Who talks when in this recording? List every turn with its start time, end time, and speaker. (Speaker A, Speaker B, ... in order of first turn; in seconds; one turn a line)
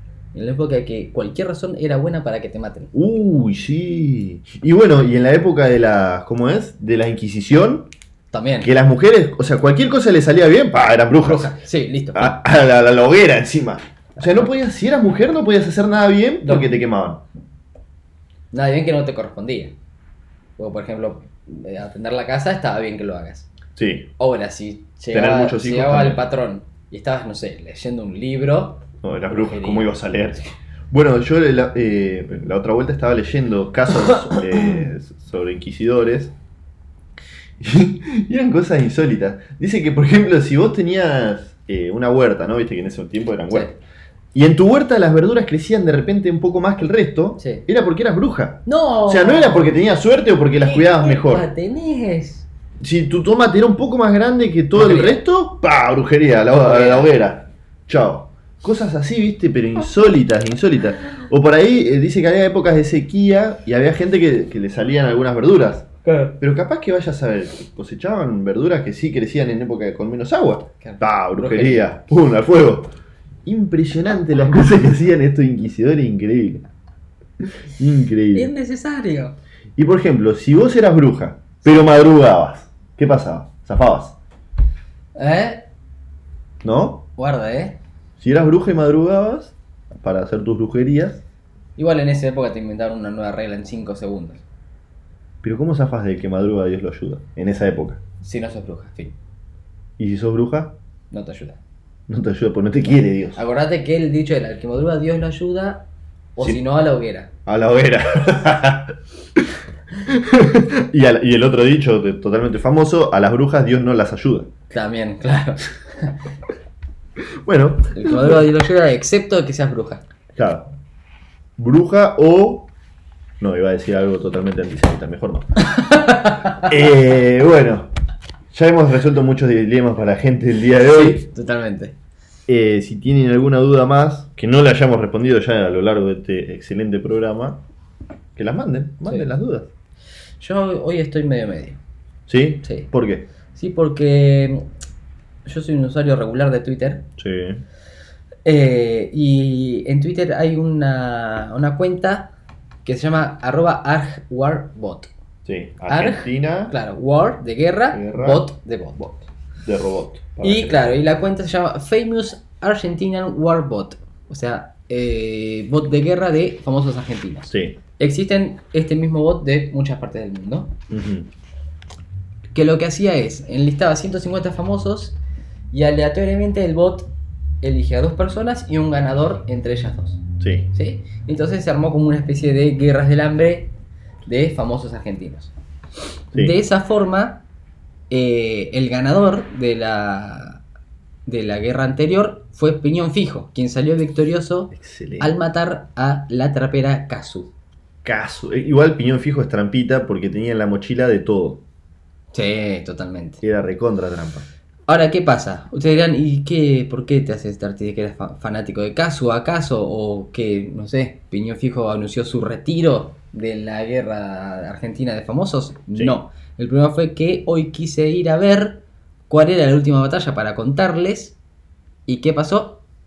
Speaker A: 0.3-2.9
Speaker B: 2.9-7.9
Speaker A: 8.3-8.7
Speaker B: 8.6-11.5
Speaker A: 11.2-12.4
Speaker B: 12.1-17.2
Speaker A: 14.2-14.4
Speaker A: 18.5-19.7
Speaker A: 20.6-23.5
Speaker B: 23.8-24.1
Speaker A: 24.2-29.9
Speaker B: 25.1-26.3
Speaker B: 29.0-36.3
Speaker B: 37.6-43.8
Speaker B: 44.3-51.5
Speaker A: 47.4-47.6
Speaker A: 48.6-49.8
Speaker A: 50.6-52.5
Speaker B: 52.8-72.9
Speaker A: 54.7-55.2
Speaker A: 56.6-57.1
Speaker A: 66.0-66.3
Speaker A: 70.8-71.9
Speaker B: 73.4-76.7
Speaker B: 77.8-78.5
Speaker A: 78.3-79.3
Speaker B: 79.8-84.2
Speaker A: 85.1-85.7
Speaker B: 86.6-87.0
Speaker A: 87.2-87.8
Speaker B: 88.2-91.2
Speaker A: 91.8-94.4
Speaker B: 95.4-98.0
Speaker A: 98.2-99.1
Speaker B: 100.0-100.7
Speaker A: 101.1-101.6
Speaker B: 102.1-103.4
Speaker A: 103.3-107.3
Speaker B: 107.5-109.5
Speaker B: 110.0-114.5
Speaker A: 114.7-116.2
Speaker B: 117.4-118.4
Speaker A: 117.9-120.0
Speaker B: 120.3-120.7
Speaker B: 121.6-122.7
Speaker B: 123.4-125.5
Speaker A: 125.7-126.6
Speaker B: 126.5-127.9
Speaker B: 128.5-131.2
Speaker A: 130.9-131.9
Speaker B: 132.5-137.6
Speaker B: 138.3-139.7
Speaker A: 140.4-141.8
Speaker B: 142.3-143.3
Speaker A: 143.5-144.7
Speaker A: 145.4-147.1
Speaker B: 147.2-147.6
Speaker A: 148.4-152.3
Speaker A: 152.8-155.1
Speaker B: 155.4-156.7
Speaker A: 155.9-159.2
Speaker B: 157.9-158.4
Speaker B: 159.6-160.9
Speaker A: 160.4-170.7
Speaker B: 167.5-167.8
Speaker B: 170.9-171.3
Speaker A: 172.5-175.2
Speaker A: 175.7-177.1
Speaker A: 177.6-180.2
Speaker B: 180.4-180.7
Speaker A: 180.7-183.7
Speaker A: 184.2-185.5
Speaker A: 186.3-187.4
Speaker A: 188.1-190.6
Speaker A: 191.2-197.5
Speaker B: 194.7-195.3
Speaker B: 198.0-201.6
Speaker A: 202.3-203.4
Speaker B: 203.4-204.4
Speaker A: 204.9-221.4
Speaker A: 222.1-222.8